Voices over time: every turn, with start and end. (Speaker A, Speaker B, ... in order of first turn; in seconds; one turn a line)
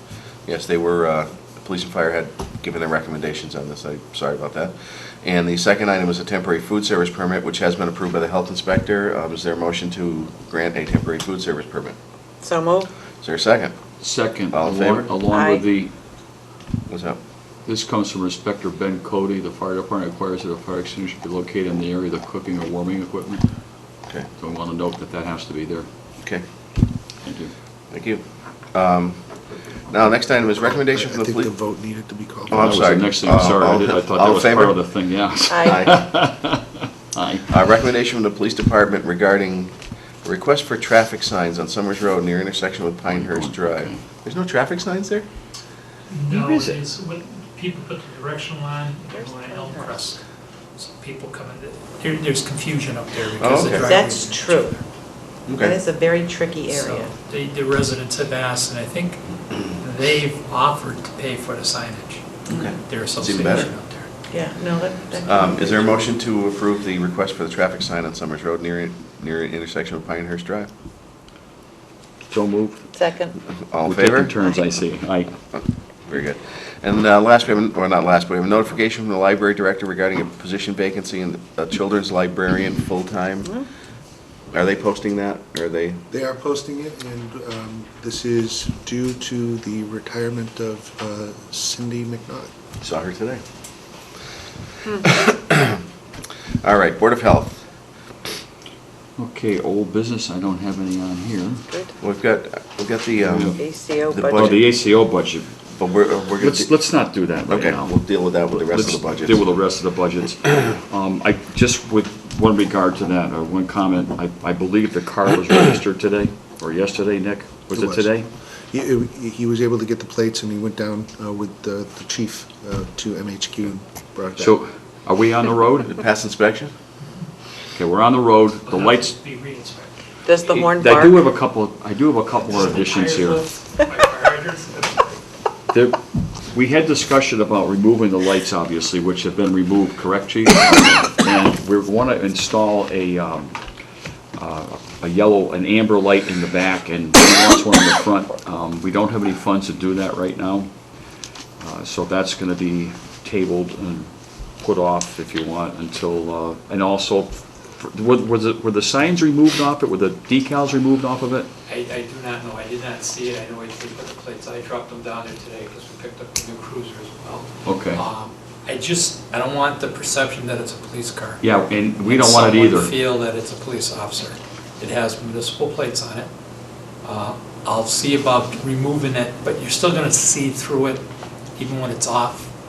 Speaker A: 0.4-12.0
Speaker B: 12.4-12.9
Speaker A: 13.2-13.7
Speaker C: 14.0-15.9
Speaker A: 14.5-15.1
Speaker B: 15.3-15.6
Speaker A: 16.9-17.2
Speaker C: 17.6-23.5
Speaker C: 24.4-25.9
Speaker C: 27.2-27.5
Speaker A: 27.9-29.2
Speaker A: 29.9-31.5
Speaker D: 30.5-32.8
Speaker A: 32.5-34.8
Speaker C: 32.5-37.5
Speaker B: 35.5-35.9
Speaker A: 35.6-36.0
Speaker A: 37.5-45.2
Speaker C: 43.1-44.0
Speaker E: 46.1-50.2
Speaker C: 46.3-46.8
Speaker B: 49.1-50.1
Speaker E: 50.8-54.8
Speaker A: 53.4-54.0
Speaker B: 53.6-54.7
Speaker A: 55.5-55.8
Speaker B: 55.6-57.1
Speaker E: 56.7-64.1
Speaker A: 62.5-63.7
Speaker B: 64.3-66.0
Speaker A: 65.1-70.7
Speaker C: 72.3-72.9
Speaker B: 72.9-73.4
Speaker A: 73.5-74.3
Speaker C: 73.8-75.3
Speaker B: 74.4-74.7
Speaker A: 75.5-83.6
Speaker A: 84.5-86.0
Speaker D: 86.1-92.5
Speaker A: 92.8-93.4
Speaker A: 94.9-95.8
Speaker A: 96.6-97.7
Speaker C: 99.2-101.7
Speaker A: 102.0-104.7
Speaker C: 103.2-103.6
Speaker B: 103.6-104.5
Speaker C: 104.3-105.5
Speaker A: 105.7-106.7
Speaker C: 106.4-108.1
Speaker A: 107.5-109.4
Speaker C: 108.7-118.3
Speaker D: 117.7-124.6
Speaker C: 124.4-126.0
Speaker A: 125.8-126.7
Speaker C: 127.7-129.2
Speaker E: 128.7-130.0
Speaker B: 130.2-131.2
Speaker C: 130.5-133.4
Speaker E: 132.4-135.2
Speaker C: 135.7-143.6
Speaker C: 144.3-150.7
Speaker C: 151.6-161.5
Speaker E: 161.7-171.4
Speaker C: 167.6-168.0
Speaker C: 171.4-172.9
Speaker E: 172.0-176.3
Speaker E: 177.0-181.0
Speaker E: 181.6-182.5